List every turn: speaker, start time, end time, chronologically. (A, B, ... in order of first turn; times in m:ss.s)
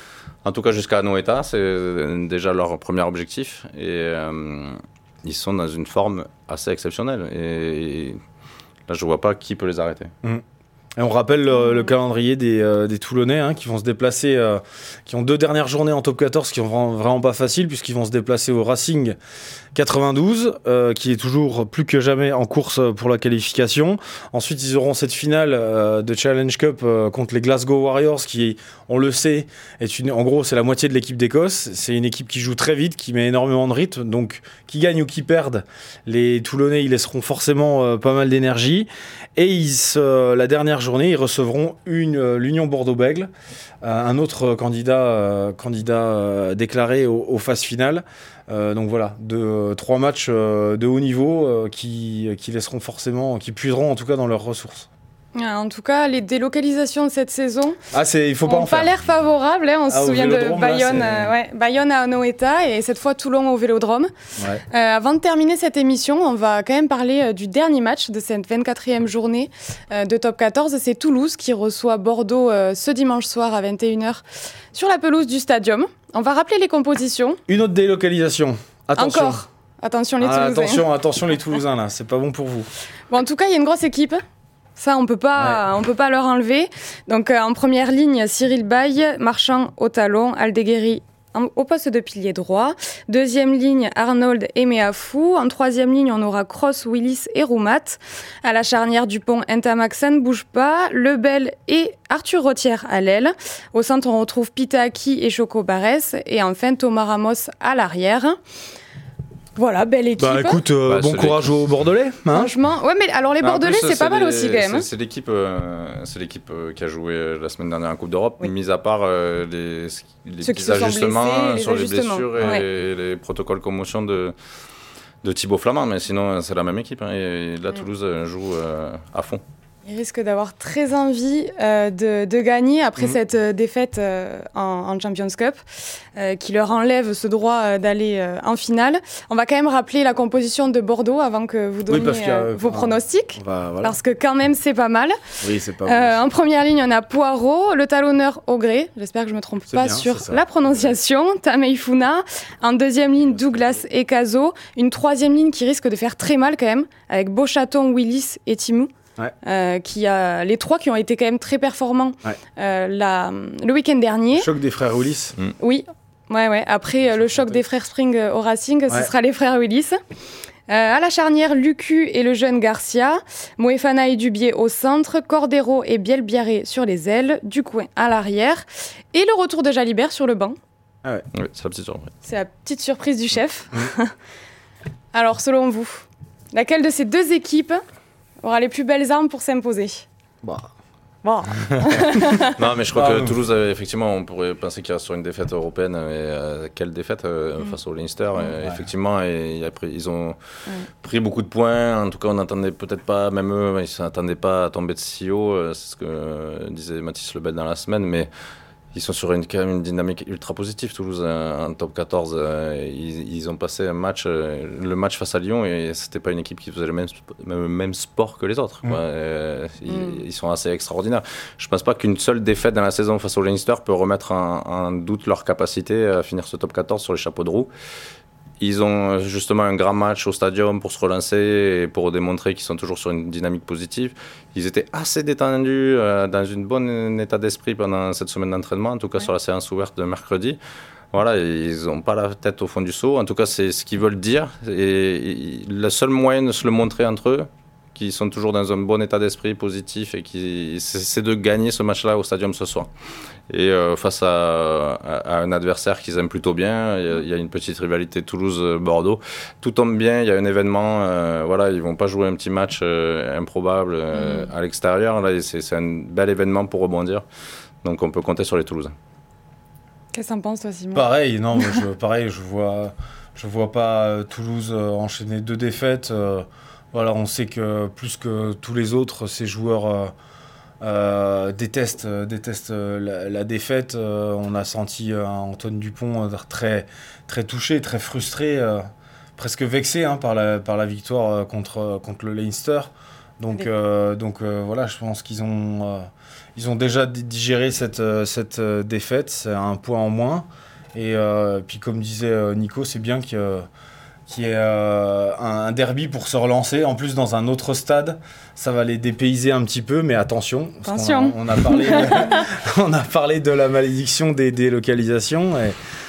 0:00.4-0:08.2 A
0:08.9-0:10.1 A
0:11.0-0:19.2 B
0:11.6-0:11.9 C
0:19.7-0:43.3 B
0:43.8-0:54.9 B
0:55.4-0:57.8 C
0:57.9-0:58.9 B
0:58.4-1:04.1 C
0:59.9-1:01.3 B
1:04.4-1:04.6 B
1:04.7-1:17.4 C
1:17.5-1:19.4 B
1:19.0-1:20.9 C
1:20.2-1:22.7 B
1:23.1-1:24.2 C
1:24.8-1:48.4 C
1:49.6-1:50.6 C
1:50.2-1:52.5 B
1:50.9-1:51.7 A
1:52.3-1:54.9 C
1:53.4-2:04.3 A
2:00.4-2:02.7 C
2:05.2-2:09.4 A
2:09.8-2:15.6 C
2:16.2-2:25.2 C
2:21.9-2:24.0 B
2:25.4-2:26.3 B
2:25.8-2:38.9 C
2:29.7-2:30.9 B
2:39.4-2:44.5 C
2:44.3-2:45.4 B
2:45.6-2:50.0 C
2:47.1-2:47.6 B
2:50.7-3:00.6 C
3:01.4-3:02.1 A
3:02.2-3:04.1 C
3:05.1-3:07.8 C
3:08.4-3:10.0 C
3:10.4-3:10.7 B
3:11.2-3:12.5 C
3:12.5-3:20.4 A
3:13.0-3:13.4 B
3:21.0-3:28.3 A
3:28.9-3:47.7 A
3:39.9-3:40.2 C
3:48.6-4:00.6 A
4:01.1-4:12.9 A
4:13.5-4:27.2 A
4:24.1-4:24.5 C
4:27.8-4:28.9 A
4:30.1-4:31.8 C
4:31.0-4:40.1 B
4:40.8-4:48.8 B
4:49.4-5:03.7 B
5:04.3-5:15.8 B
5:10.8-5:12.5 C